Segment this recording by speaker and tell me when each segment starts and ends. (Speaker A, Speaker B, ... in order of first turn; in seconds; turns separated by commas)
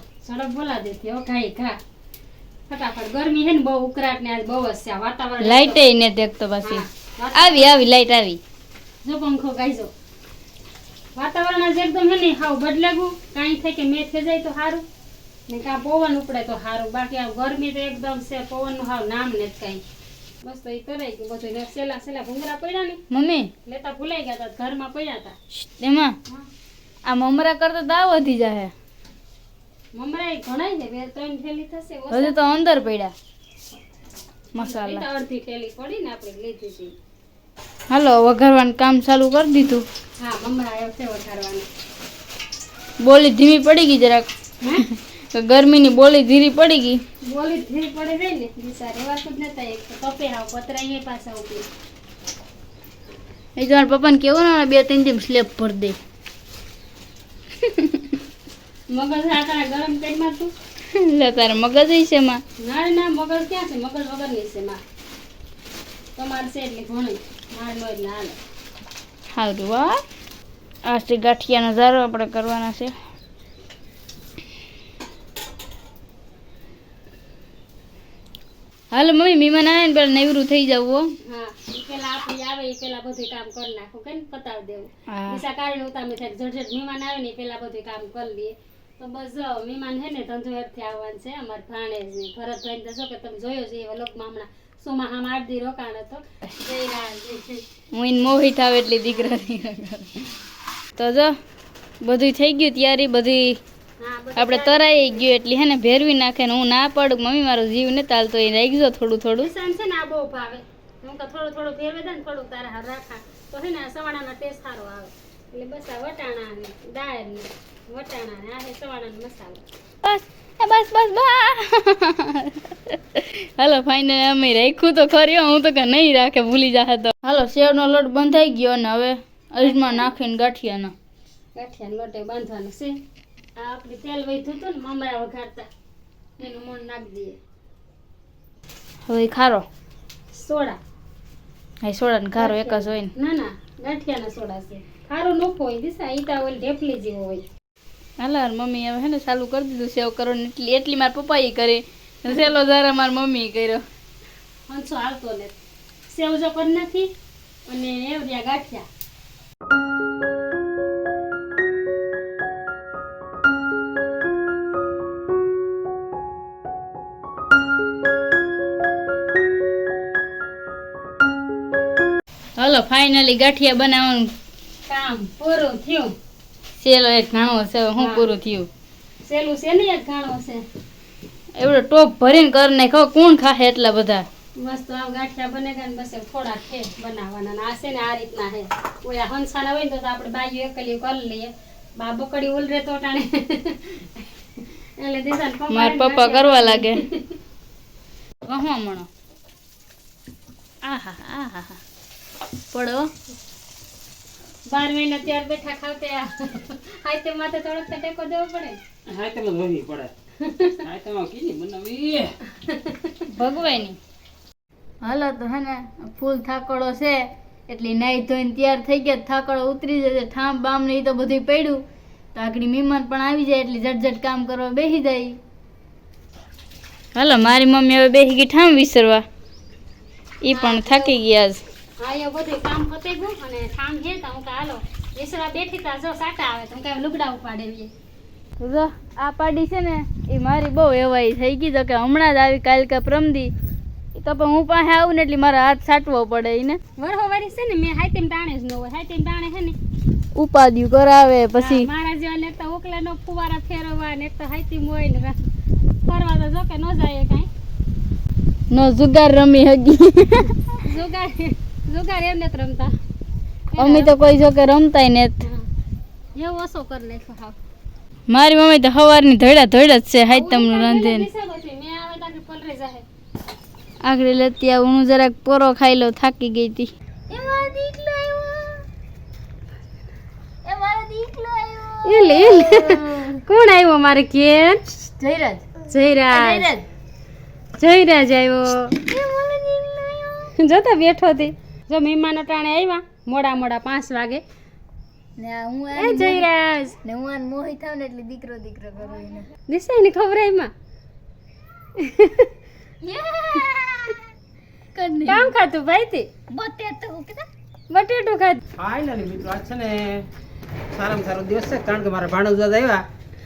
Speaker A: 0.2-1.8, Speaker A: 2.7-5.8, Speaker B: 5.4-6.8, Speaker A: 6.6-7.7, Speaker B: 7.3-8.4, Speaker A: 9.0-9.9, Speaker A: 11.2-14.8, Speaker A: 15.5-19.8, Speaker A: 20.4-23.0, Speaker B: 23.1-23.5, Speaker A: 23.6-25.4, Speaker B: 25.6-26.2, Speaker B: 27.1-28.7, Speaker A: 29.9-32.4, Speaker B: 32.1-33.1, Speaker B: 34.6-35.0, Speaker A: 34.6-36.9, Speaker B: 37.9-39.9, Speaker A: 40.2-41.7, Speaker B: 43.0-47.0, Speaker A: 47.3-51.7, Speaker B: 53.6-56.0, Speaker B: 57.6-58.1, Speaker A: 58.9-60.5, Speaker B: 60.9-62.4, Speaker A: 62.6-64.8, Speaker A: 66.2-68.4, Speaker B: 69.3-70.0, Speaker B: 70.9-72.9, Speaker B: 78.9-81.0, Speaker A: 81.3-97.6, Speaker B: 85.1-85.4, Speaker B: 97.9-100.3, Speaker B: 101.0-101.3, Speaker B: 102.0-103.6, Speaker A: 104.0-105.2, Speaker B: 104.4-109.5, Speaker A: 109.4-119.6, Speaker B: 120.0-130.9, Speaker A: 129.6-130.1, Speaker A: 131.6-132.9, Speaker A: 133.6-135.7, Speaker A: 136.4-137.4, Speaker B: 139.1-139.7, Speaker A: 140.3-140.8, Speaker B: 141.8-143.1, Speaker A: 142.4-147.4, Speaker B: 148.2-153.8, Speaker A: 154.7-155.6, Speaker A: 156.1-157.1, Speaker A: 157.7-158.9, Speaker B: 172.6-174.3, Speaker A: 174.9-176.1, Speaker B: 176.8-178.7, Speaker A: 178.0-178.3, Speaker A: 179.2-180.6, Speaker B: 181.6-184.3, Speaker A: 184.6-197.4, Speaker B: 195.7-197.0, Speaker B: 198.4-199.1, Speaker B: 200.8-201.8, Speaker B: 202.7-203.1, Speaker A: 204.7-208.8, Speaker C: 209.1-210.1, Speaker A: 210.4-210.8, Speaker C: 210.8-212.4, Speaker A: 212.7-213.5, Speaker B: 213.3-214.0, Speaker B: 215.0-221.8, Speaker B: 222.3-225.4, Speaker B: 227.2-229.2, Speaker B: 230.4-231.6, Speaker A: 230.5-231.2, Speaker A: 232.0-237.9, Speaker B: 238.6-243.5, Speaker B: 244.2-246.8, Speaker A: 247.0-249.8, Speaker B: 250.3-251.9, Speaker A: 251.6-255.4, Speaker A: 256.1-257.5, Speaker B: 258.7-260.7, Speaker A: 260.8-262.9, Speaker A: 263.7-264.1, Speaker B: 263.8-265.4, Speaker A: 266.4-267.6, Speaker B: 268.3-271.3, Speaker A: 270.3-273.1, Speaker B: 274.0-278.8, Speaker B: 280.6-283.4, Speaker A: 282.1-284.8, Speaker B: 284.9-285.7, Speaker A: 285.9-286.7, Speaker B: 286.3-286.9, Speaker A: 287.8-289.0, Speaker B: 289.1-290.5, Speaker A: 290.6-294.4, Speaker B: 295.4-296.5, Speaker A: 296.0-297.0, Speaker B: 297.0-299.5, Speaker A: 299.7-300.7, Speaker A: 302.0-302.5, Speaker B: 303.0-304.2, Speaker B: 304.9-305.5, Speaker A: 305.2-306.3, Speaker B: 306.5-307.5, Speaker A: 307.9-308.6, Speaker C: 308.8-310.2, Speaker C: 310.9-313.0